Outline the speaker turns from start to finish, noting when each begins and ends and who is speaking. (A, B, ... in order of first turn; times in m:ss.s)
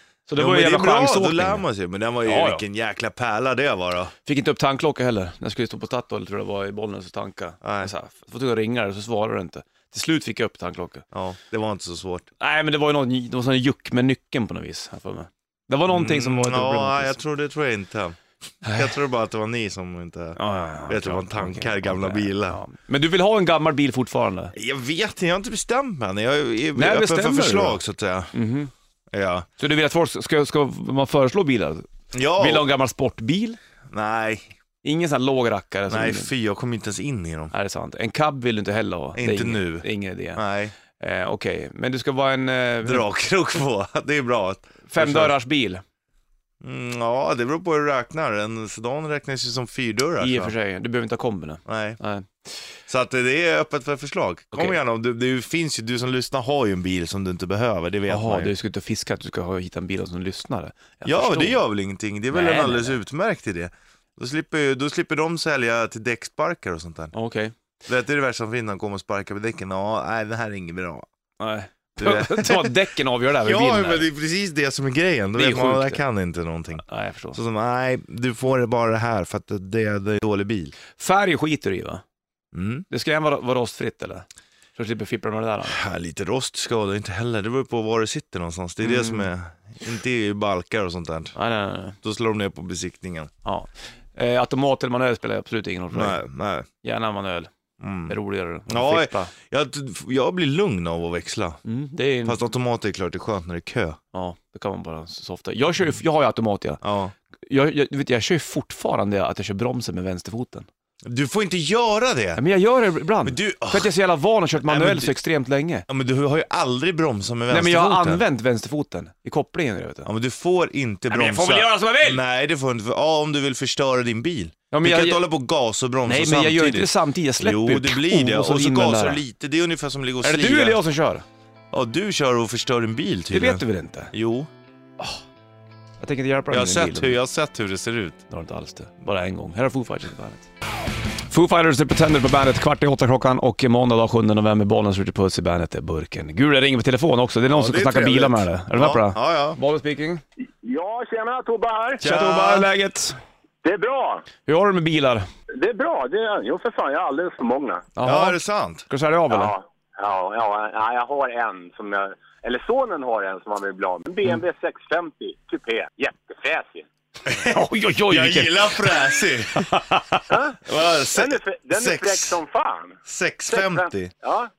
0:00.3-0:01.6 A
0:00.4-0:04.1 B
0:02.2-0:02.6 A
0:04.2-0:11.0 A
0:07.6-0:07.9 B
0:11.1-0:12.3 B
0:12.4-0:17.2 A
0:15.9-0:22.6 B
0:20.4-0:24.5 A
0:24.5-0:28.3 B
0:26.8-0:27.8 A
0:28.3-0:28.7 A
0:29.1-0:29.5 B
0:29.6-0:33.6 A
0:32.1-0:32.6 B
0:33.9-0:34.5 B
0:34.8-0:36.3 A
0:35.9-0:37.5 B
0:37.5-0:40.4 A
0:39.1-0:40.7 B
0:41.0-0:43.1 A
0:42.8-0:45.4 B
0:44.9-0:45.8 A
0:46.6-0:50.5 B
0:50.2-0:52.3 A
0:51.6-0:52.0 B
0:52.9-0:58.5 B
0:58.1-1:01.6 A
1:01.0-1:07.1 B
1:02.3-1:03.0 A
1:07.1-1:07.5 A
1:07.8-1:11.1 B
1:11.4-1:14.1 A
1:12.0-1:12.7 B
1:13.4-1:20.8 B
1:15.3-1:16.0 A
1:16.8-1:17.4 A
1:21.0-1:22.0 A
1:22.5-1:22.8 B
1:22.9-1:25.8 A
1:25.7-1:31.3 B
1:28.8-1:29.3 A
1:31.3-1:32.0 A
1:32.0-1:33.3 B
1:33.4-1:36.2 A
1:35.9-1:36.7 B
1:36.8-1:37.5 A
1:37.8-1:38.2 B
1:38.1-1:39.3 A
1:38.7-1:41.6 B
1:41.6-1:42.4 A
1:42.2-1:44.0 B
1:44.1-1:46.8 A
1:46.8-1:47.1 B
1:47.4-1:50.7 A
1:51.0-1:52.4 B
1:52.4-1:55.8 A
1:53.2-1:53.9 B
1:54.6-1:55.2 B
1:55.9-1:58.2 B
1:57.5-2:00.1 A
2:00.0-2:10.8 B
2:01.1-2:02.2 A
2:04.7-2:05.2 A
2:06.1-2:09.2 A
2:10.2-2:11.2 A
2:11.7-2:14.5 B
2:13.3-2:14.1 A
2:16.0-2:17.2 A
2:16.5-2:18.2 B
2:18.3-2:20.5 A
2:21.3-2:30.2 A
2:27.5-2:29.6 B
2:30.6-2:32.0 C
2:32.0-2:32.7 B
2:32.0-2:33.2 A
2:33.6-2:34.2 C
2:34.4-2:35.2 A
2:35.5-2:37.9 C
2:38.0-2:39.5 A
2:38.0-2:38.8 B
2:39.3-2:46.8 C
2:47.2-2:49.8 B
2:47.4-2:48.9 A
2:49.5-2:50.2 A
2:50.3-2:50.6 C
2:50.6-2:52.4 B
2:51.1-2:54.5 C
2:53.0-2:54.1 B